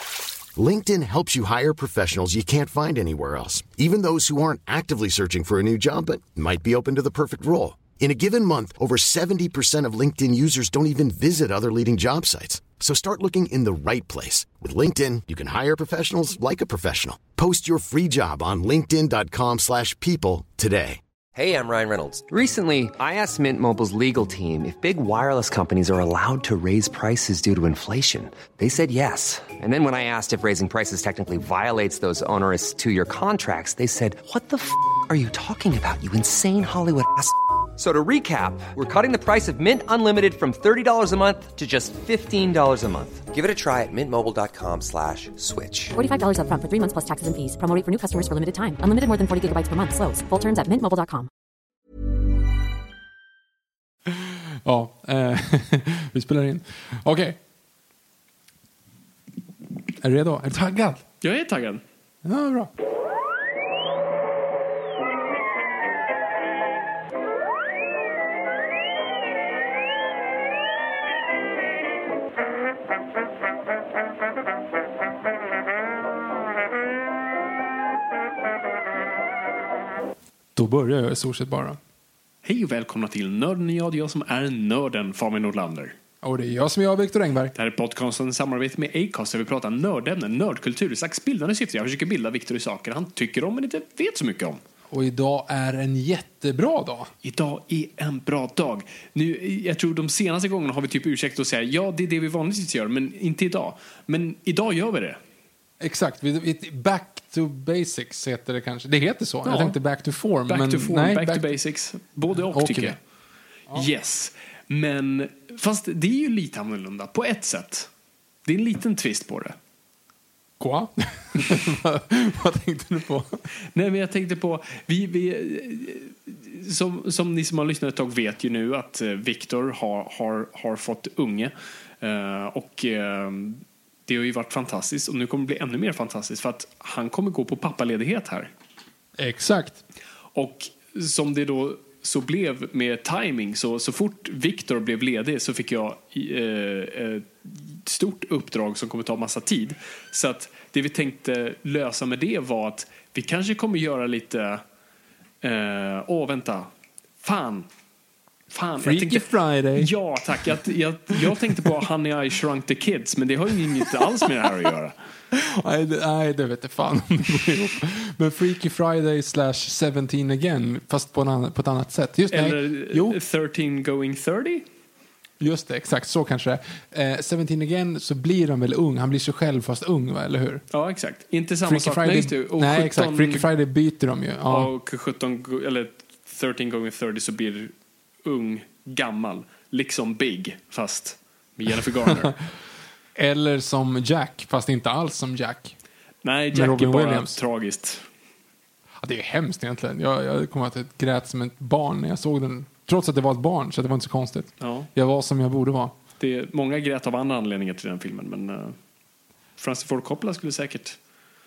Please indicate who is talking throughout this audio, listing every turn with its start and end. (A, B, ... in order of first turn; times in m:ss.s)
0:00.6-0:21.0 A
0:21.4-0:46.0 B
0:46.0-0:51.3 C
0:54.1-0:57.4 D
1:00.0-1:01.0 D
1:01.2-1:01.8 E
1:02.2-1:02.7 D
1:20.6-1:21.8 D
1:22.4-1:26.0 E
1:26.2-1:27.5 D
1:27.6-1:34.6 E
1:34.9-1:37.1 D
1:37.2-1:45.2 E
1:45.8-1:51.5 D
1:49.4-1:49.8 E
1:50.5-1:53.0 E
1:52.5-1:53.0 D
1:53.7-1:57.9 E
1:58.4-1:59.6 E
2:00.6-2:03.4 D
2:03.7-2:18.5 E
2:19.2-2:19.8 D
2:20.4-2:34.6 E
2:35.4-2:36.7 E
2:37.2-2:37.7 E
2:38.5-2:45.0 E
2:38.8-2:39.9 D
2:45.3-2:53.2 D
2:52.3-2:54.6 E
2:55.4-3:00.6 D
3:00.7-3:03.5 E
3:01.6-3:04.7 D
3:04.5-3:07.7 E
3:08.2-3:12.4 E
3:13.2-3:15.8 D
3:16.2-3:18.1 E
3:16.5-3:17.4 D
3:19.0-3:26.0 D
3:24.6-3:24.9 E
3:26.2-3:28.8 E
3:29.6-3:31.0 E